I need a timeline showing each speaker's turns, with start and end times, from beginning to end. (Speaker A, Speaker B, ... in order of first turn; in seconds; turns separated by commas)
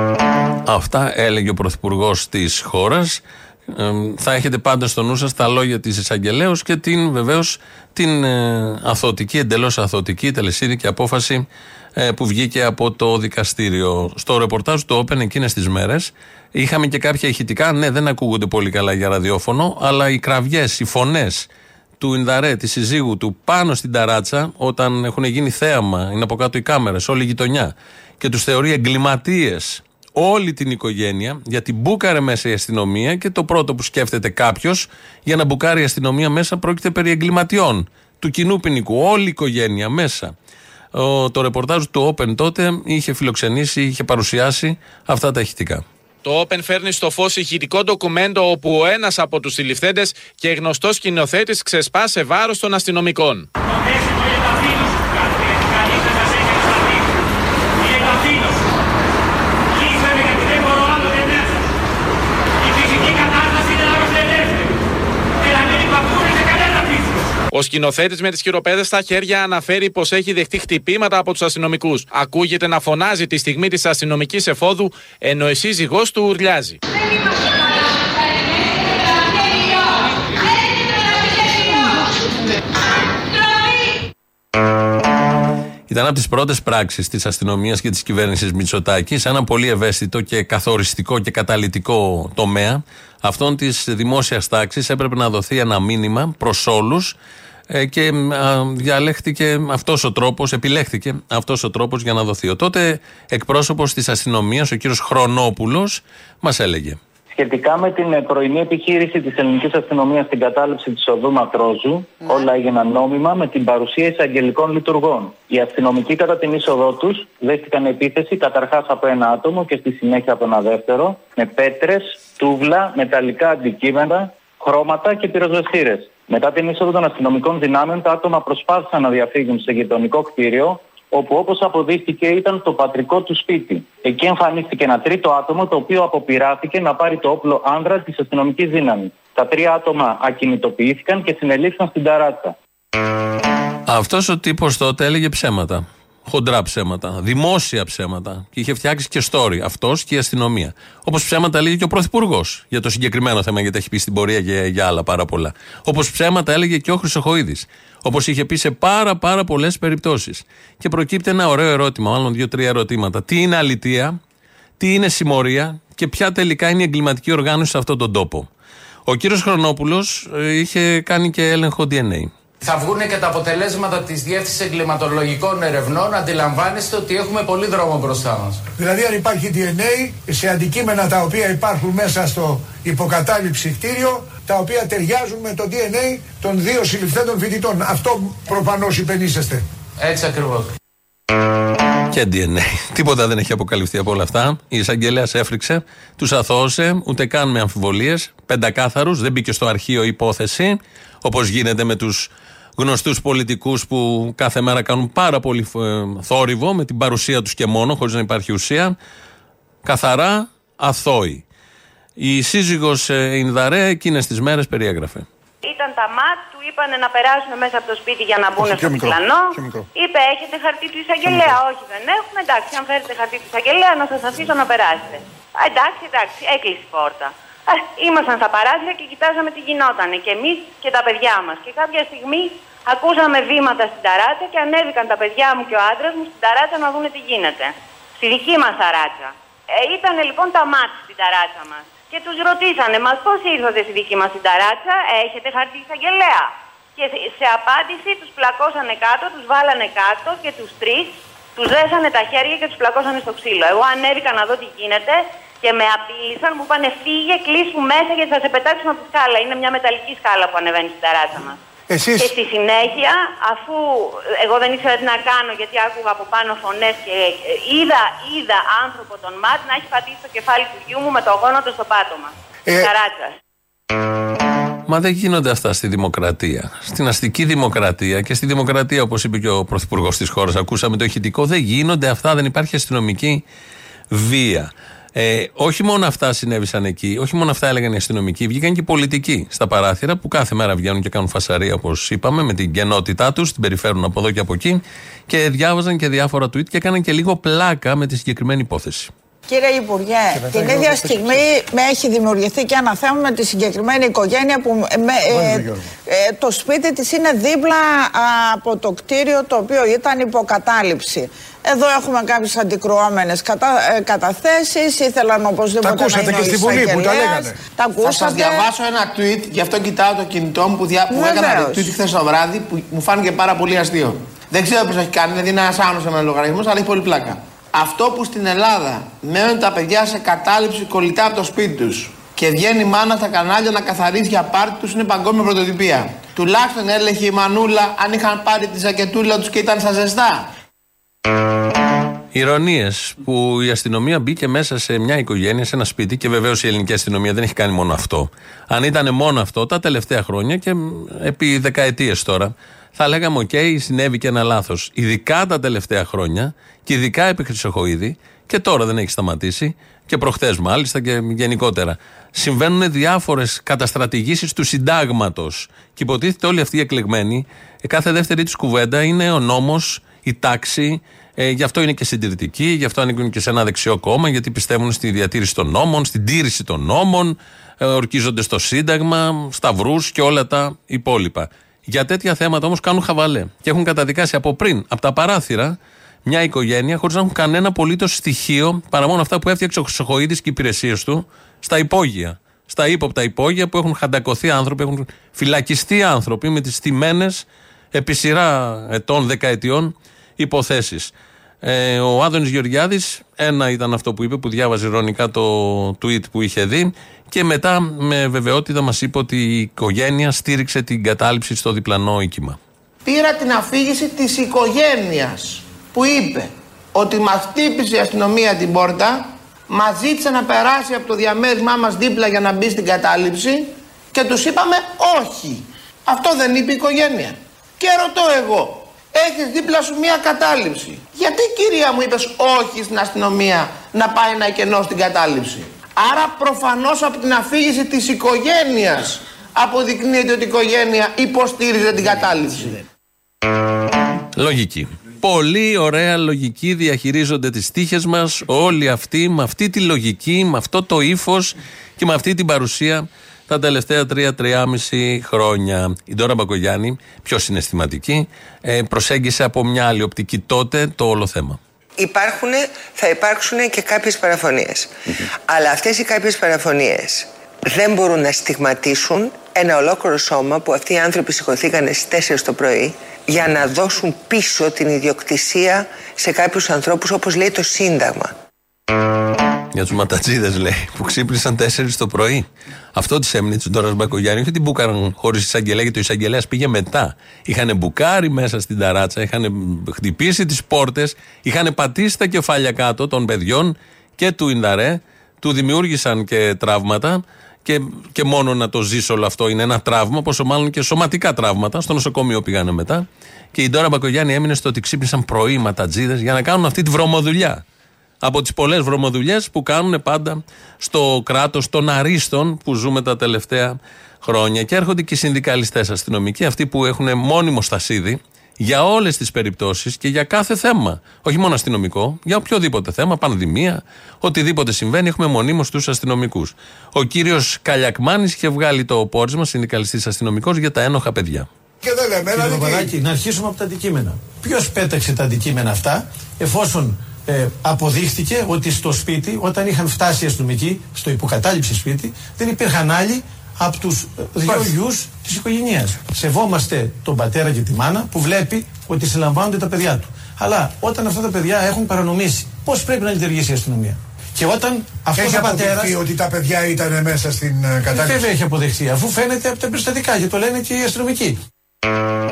Speaker A: 0.7-11.4, Speaker A: 12.0-21.5, Speaker A: 22.0-40.3, Speaker A: 40.9-45.8, Speaker B: 46.2-53.5, Speaker B: 55.2-57.0, Speaker B: 57.8-58.6, Speaker B: 59.8-61.5, Speaker B: 62.7-64.5, Speaker B: 65.5-66.8, Speaker B: 67.5-76.8, Speaker A: 85.9-97.2, Speaker A: 97.7-107.0, Speaker C: 107.3-142.5, Speaker A: 143.9-164.2, Speaker A: 164.8-168.5, Speaker A: 169.1-172.3, Speaker D: 172.6-178.6, Speaker E: 178.8-189.6, Speaker D: 190.0-190.7, Speaker A: 192.1-208.9, Speaker A: 209.8-211.4, Speaker A: 212.2-215.2, Speaker F: 215.6-261.6, Speaker E: 218.6-219.8, Speaker E: 261.9-262.3, Speaker F: 262.2-273.4, Speaker A: 274.9-283.4, Speaker A: 284.1-299.1, Speaker G: 299.5-318.7, Speaker E: 300.4-301.3, Speaker E: 305.4-305.7, Speaker E: 315.8-317.6, Speaker H: 318.0-340.5, Speaker G: 321.1-321.9, Speaker A: 342.3-401.1, Speaker A: 401.6-412.6, Speaker H: 413.1-442.8, Speaker A: 444.4-461.6, Speaker I: 462.0-464.9, Speaker I: 465.5-478.3, Speaker A: 479.7-507.6, Speaker A: 508.2-531.5, Speaker E: 531.8-532.9, Speaker J: 532.3-556.0, Speaker E: 555.1-558.2, Speaker J: 557.9-561.4